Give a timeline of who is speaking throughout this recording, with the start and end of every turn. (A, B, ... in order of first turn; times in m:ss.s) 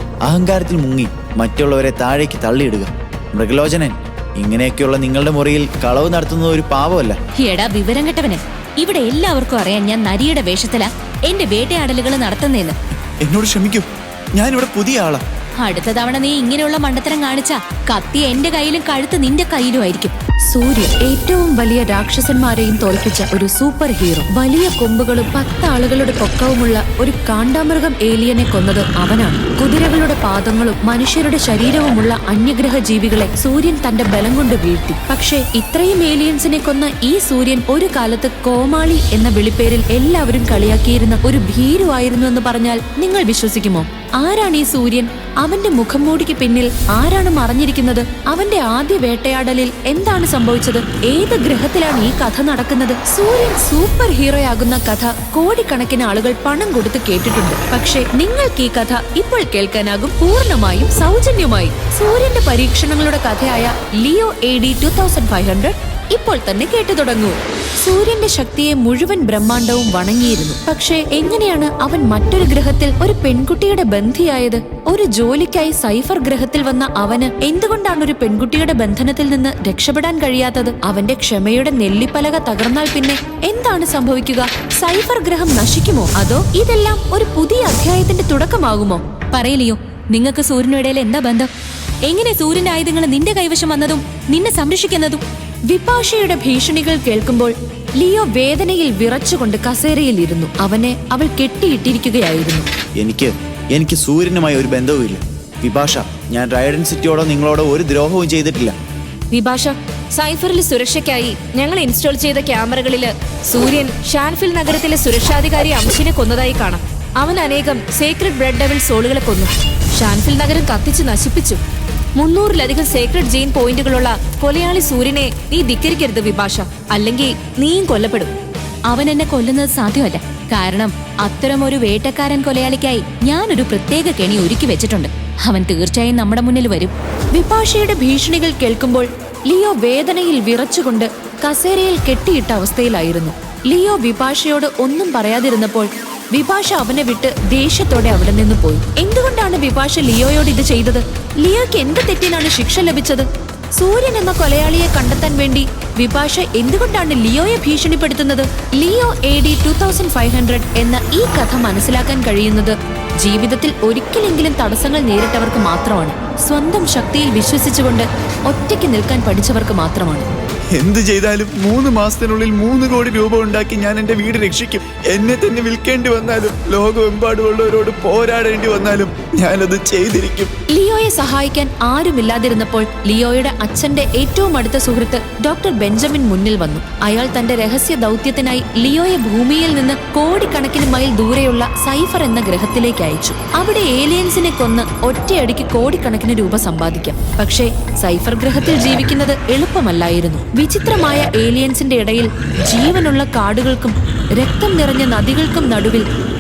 0:00.3-0:07.2 A
0:07.4-0:12.8 B
0:13.2-0:15.2 A
0:15.6-0:20.1 B
0:20.5-1:29.0 C
1:29.3-1:31.5 B
1:32.1-1:35.2 B
1:35.7-1:42.7 C
1:43.0-1:48.8 A
1:49.3-2:01.6 D
2:02.2-2:08.3 D
2:08.9-2:16.9 B
2:17.3-2:33.3 C
2:33.8-2:50.3 C
2:50.8-3:00.5 A
3:00.7-3:26.0 C